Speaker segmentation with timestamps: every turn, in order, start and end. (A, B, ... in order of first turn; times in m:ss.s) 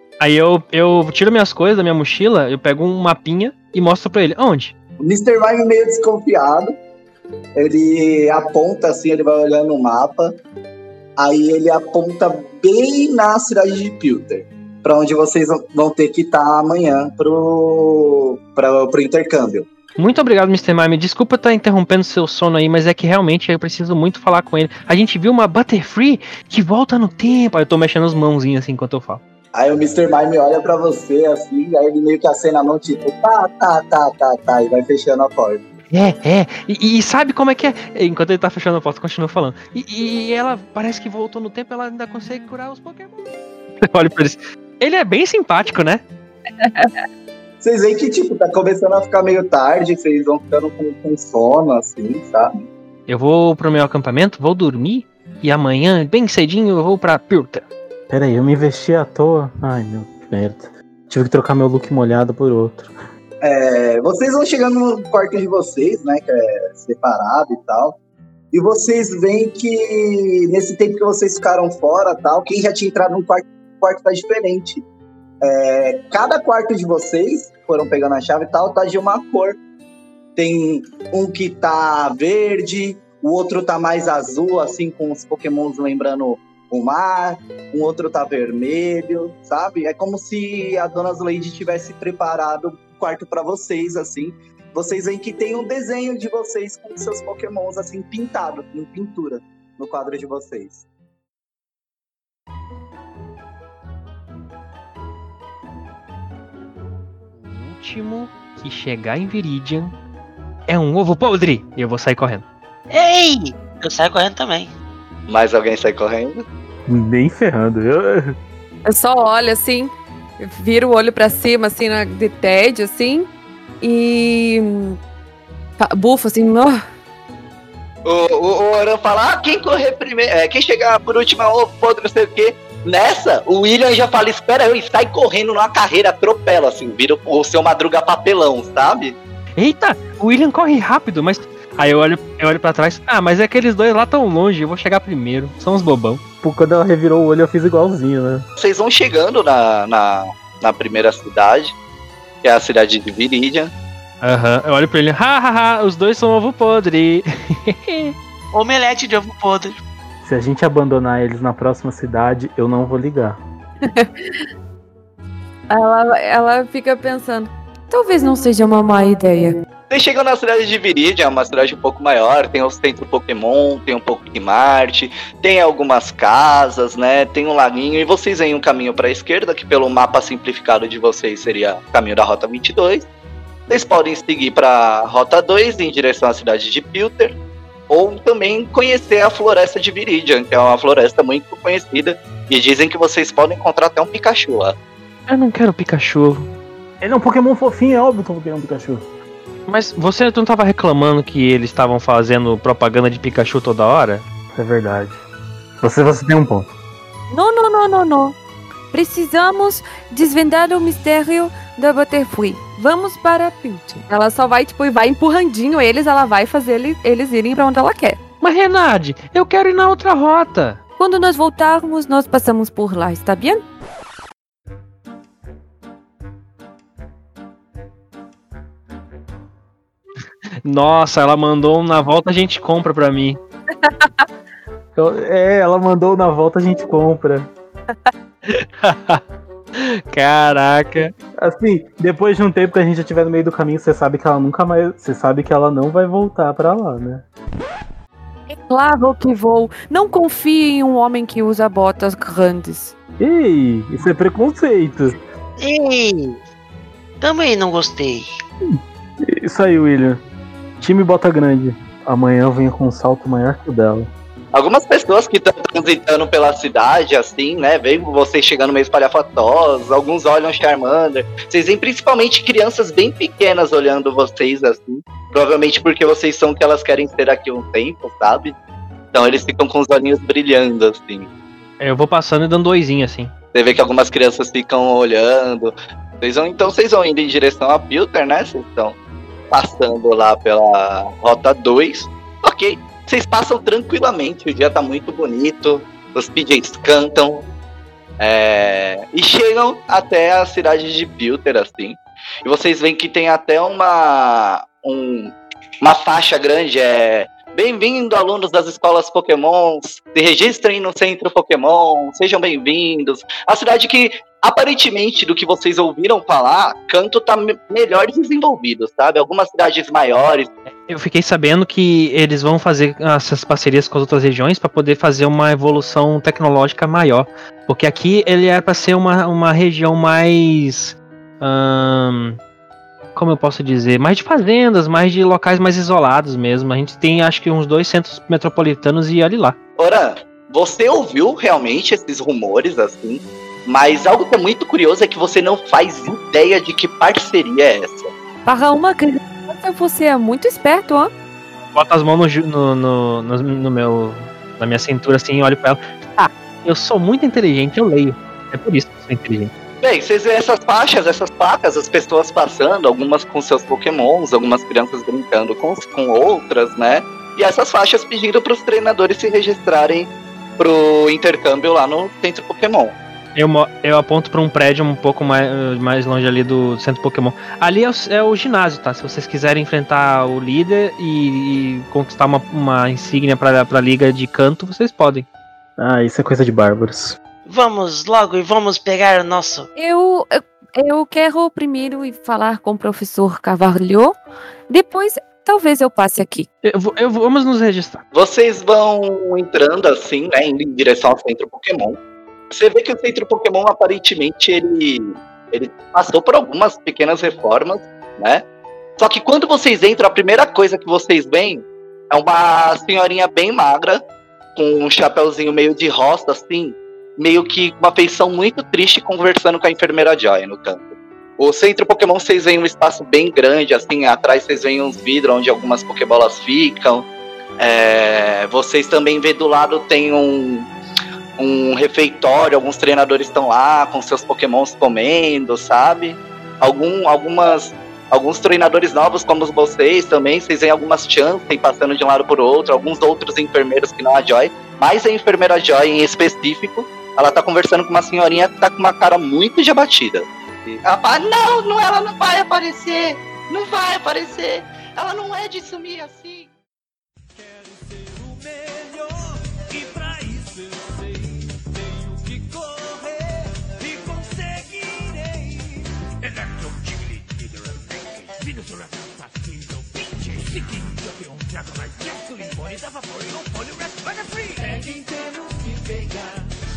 0:00.2-0:04.7 A
0:05.0-0:06.7 B
0:07.6-0:10.3 B
0:11.2-0:19.7 B
0:20.0-0:29.2 A
0:29.5-0:35.6 B
0:35.9-0:46.0 A
0:46.6-0:46.9 C
0:47.6-0:52.5 B
0:53.1-0:57.6 A
0:58.1-1:02.9 D
1:03.4-1:08.0 B
1:08.5-1:14.8 B
1:15.4-1:19.6 B
1:20.4-1:40.8 B
1:47.3-1:49.9 A
1:50.7-1:52.4 A
1:52.9-1:54.7 E
1:55.3-1:56.4 B
1:56.9-1:58.3 D
1:58.9-2:03.3 C
2:03.8-2:05.0 C
2:05.8-2:06.8 C
2:08.0-2:19.2 B
2:19.6-2:26.2 A
2:26.4-2:28.4 D
2:28.6-2:31.7 B
2:32.4-2:33.7 B
2:34.2-2:38.1 A
2:38.5-2:39.8 E
2:40.2-2:43.4 D
2:43.8-2:44.4 C
2:45.7-2:49.5 C
2:49.9-3:03.1 B
3:03.7-3:07.3 B
3:07.9-3:14.7 B
3:15.3-3:16.5 A
3:17.0-3:19.0 D
3:19.7-3:24.2 A
3:24.6-3:25.2 D
3:25.8-3:26.7 D
3:27.3-3:28.4 C
3:28.9-3:38.2 C
3:38.4-3:40.8 A
3:41.0-3:43.6 C
3:50.6-3:53.4 A
3:53.8-3:54.2 C
3:55.0-3:57.5 D
3:58.4-3:59.2 A
3:59.7-4:01.1 A
4:01.4-4:07.2 D
4:08.5-4:12.9 C
4:13.2-4:15.2 D
4:15.6-4:16.4 E
4:17.2-4:18.3 E
4:18.6-4:20.2 D
4:20.8-4:24.1 D
4:24.5-4:38.5 B
4:39.1-4:41.3 B
4:41.8-4:43.3 A
4:43.5-4:48.9 B
4:49.5-4:57.4 B
4:58.2-5:20.5 B
5:20.8-5:32.4 A
5:33.1-5:39.6 A
5:39.8-5:48.1 B
5:48.4-5:51.1 C
5:51.7-5:59.5 A
5:59.8-6:12.9 B
6:13.3-6:25.2 A
6:25.8-6:27.2 D
6:27.4-6:29.7 E
6:29.8-6:34.1 C
6:34.7-6:36.5 C
6:36.6-6:38.0 A
6:38.1-6:42.0 B
6:42.5-6:48.4 B
6:49.0-6:54.0 B
6:54.6-7:07.0 B
7:07.6-7:10.7 B
7:11.4-7:36.5 B
7:37.3-7:56.5 F